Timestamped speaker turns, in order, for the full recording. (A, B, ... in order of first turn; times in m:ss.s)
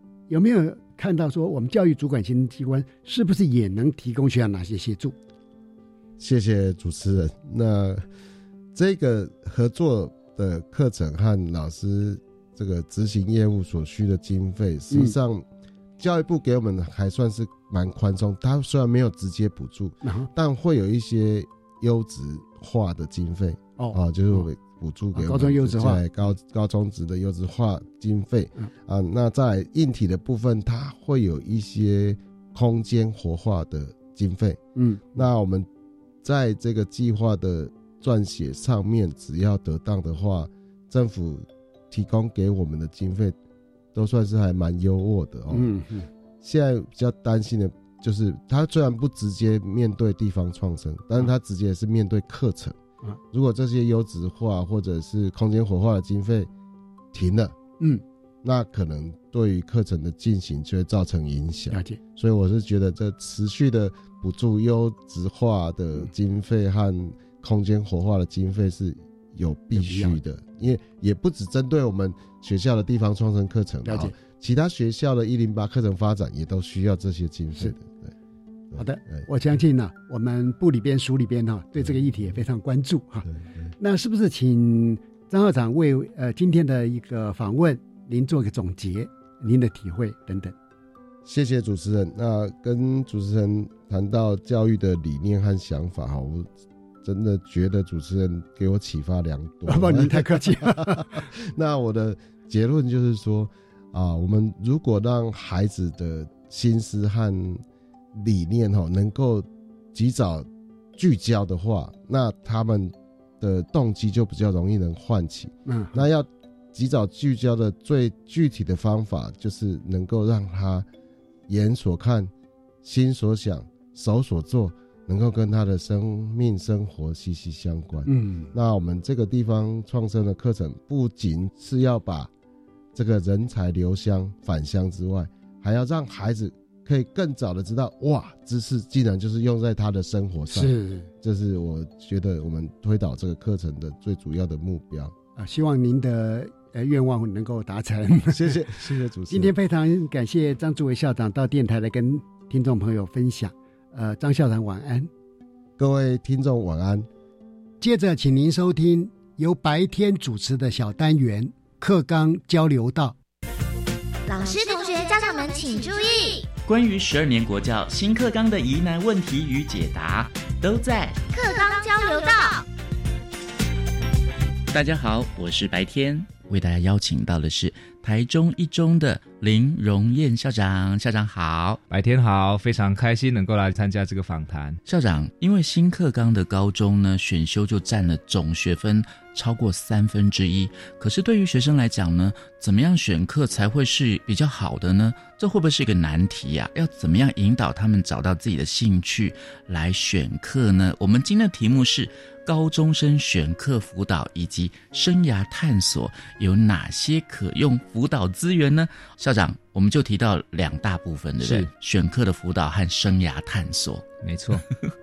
0:00.3-0:05.2 A
0:06.2-0:08.1 B
0:08.7-0:15.4 B
0:16.0-0:34.6 B
0:20.0-0:20.3 A
0:23.8-0:24.5 A
0:25.2-0:26.0 A
0:34.8-0:35.2 A
0:35.2-0:35.7 B
0:36.2-0:43.4 B
0:43.9-0:45.7 B
0:45.5-0:46.1 A
0:46.4-0:52.8 B
0:53.3-0:56.5 B
0:57.1-0:57.6 B
0:58.4-1:18.1 B
1:01.7-1:02.0 A
1:09.7-1:10.2 A
1:13.8-1:14.1 A
1:18.7-1:19.3 B
1:18.8-1:23.3 A
1:21.8-1:22.2 B
1:23.2-1:23.7 B
1:23.8-1:30.5 A
1:31.2-1:36.5 B
1:37.0-2:00.9 B
1:39.7-1:41.3 A
1:55.7-1:56.0 A
2:01.5-2:02.3 B
2:02.8-2:12.3 B
2:08.1-2:08.5 A
2:12.9-2:25.1 B
2:20.5-2:21.1 A
2:25.4-2:28.6 A
2:28.3-2:29.5 B
2:29.3-2:35.1 A
2:35.8-2:37.1 B
2:37.8-2:43.2 A
2:44.3-2:46.5 C
2:46.7-2:51.2 D
2:51.3-2:52.6 C
2:54.7-3:01.8 D
3:01.9-3:04.8 E
3:04.8-3:34.0 D
3:34.2-3:34.6 E